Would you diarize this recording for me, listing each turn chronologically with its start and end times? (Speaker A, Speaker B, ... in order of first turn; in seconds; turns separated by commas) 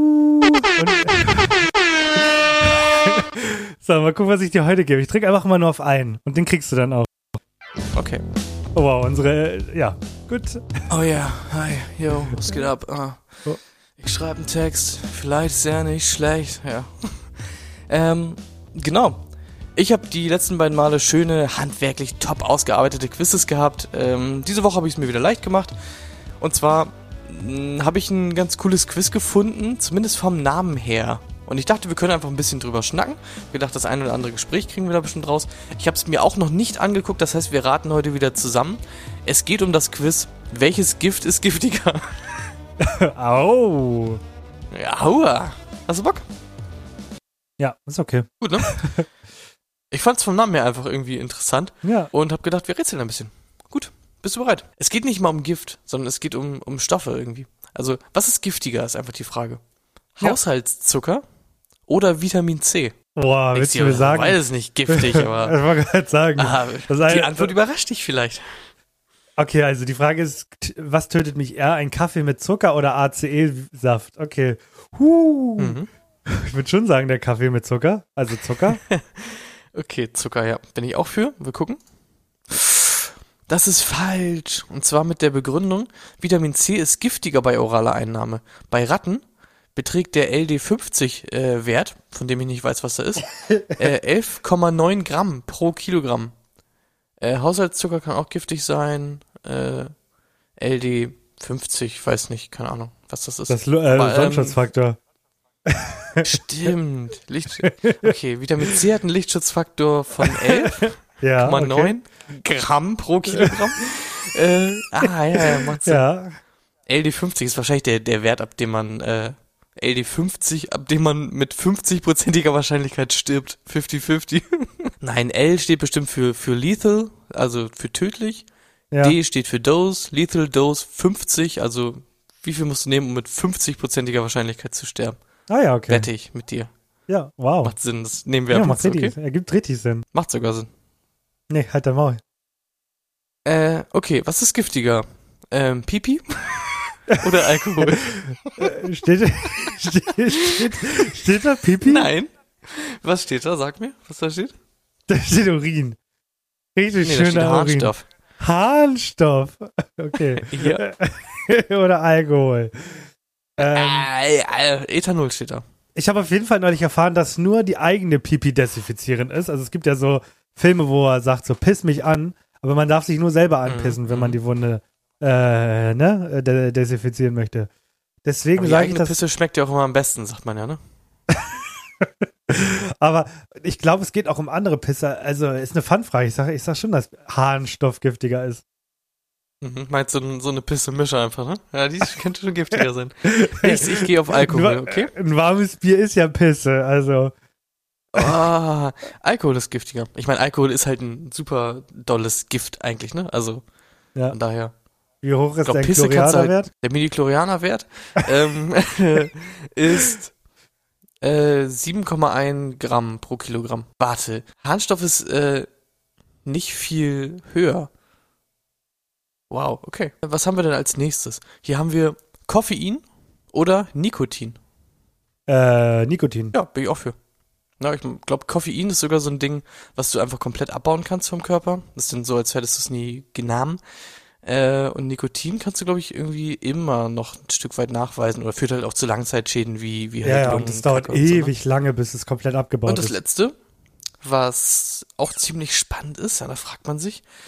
Speaker A: 0.8-7.1, Speaker B: 7.9-8.2, Speaker A: 8.8-10.8, Speaker B: 10.9-19.2, Speaker B: 19.8-25.8, Speaker B: 26.4-42.4, Speaker A: 42.8-44.2, Speaker B: 44.7-46.2, Speaker A: 47.6-49.1, Speaker B: 48.4-48.7, Speaker B: 49.9-59.6, Speaker A: 51.8-52.1, Speaker B: 60.2-61.2, Speaker B: 61.9-63.0, Speaker A: 63.1-67.5, Speaker B: 63.5-65.6, Speaker B: 66.4-68.7, Speaker A: 69.4-78.8, Speaker B: 75.6-75.9, Speaker B: 78.9-81.8, Speaker B: 82.5-89.2, Speaker B: 89.8-96.3, Speaker A: 93.4-93.9, Speaker B: 97.2-99.9, Speaker B: 100.6-104.6, Speaker A: 103.5-105.0, Speaker A: 105.7-106.2, Speaker B: 106.2-116.0, Speaker A: 107.6-108.1, Speaker A: 110.2-112.0, Speaker A: 113.3-113.5, Speaker A: 115.0-116.4, Speaker B: 116.9-128.5, Speaker A: 128.9-129.2, Speaker B: 129.0-135.2, Speaker A: 135.5-136.1, Speaker B: 135.9-136.7, Speaker A: 137.1-137.7, Speaker B: 137.6-139.1, Speaker A: 138.5-140.1, Speaker B: 140.1-140.7, Speaker A: 141.5-142.2, Speaker B: 143.4-148.7, Speaker A: 147.8-152.1, Speaker B: 150.4-151.2, Speaker B: 151.8-154.6, Speaker A: 155.1-156.0, Speaker A: 156.8-164.1, Speaker B: 157.0-158.1, Speaker B: 160.4-160.8, Speaker B: 163.6-165.7, Speaker A: 165.9-177.7, Speaker B: 173.7-174.4, Speaker A: 178.2-179.2, Speaker B: 178.6-180.8, Speaker A: 181.3-188.6, Speaker B: 189.6-195.1, Speaker A: 193.3-197.3, Speaker B: 198.1-203.6, Speaker B: 204.3-204.7, Speaker A: 205.2-206.7, Speaker B: 205.6-210.3, Speaker B: 211.2-215.7, Speaker B: 216.4-217.9, Speaker B: 219.5-224.6, Speaker A: 225.5-226.5, Speaker B: 226.5-227.2, Speaker B: 227.8-233.8, Speaker B: 234.4-241.5, Speaker A: 240.2-243.1, Speaker B: 242.9-243.6, Speaker B: 244.2-247.2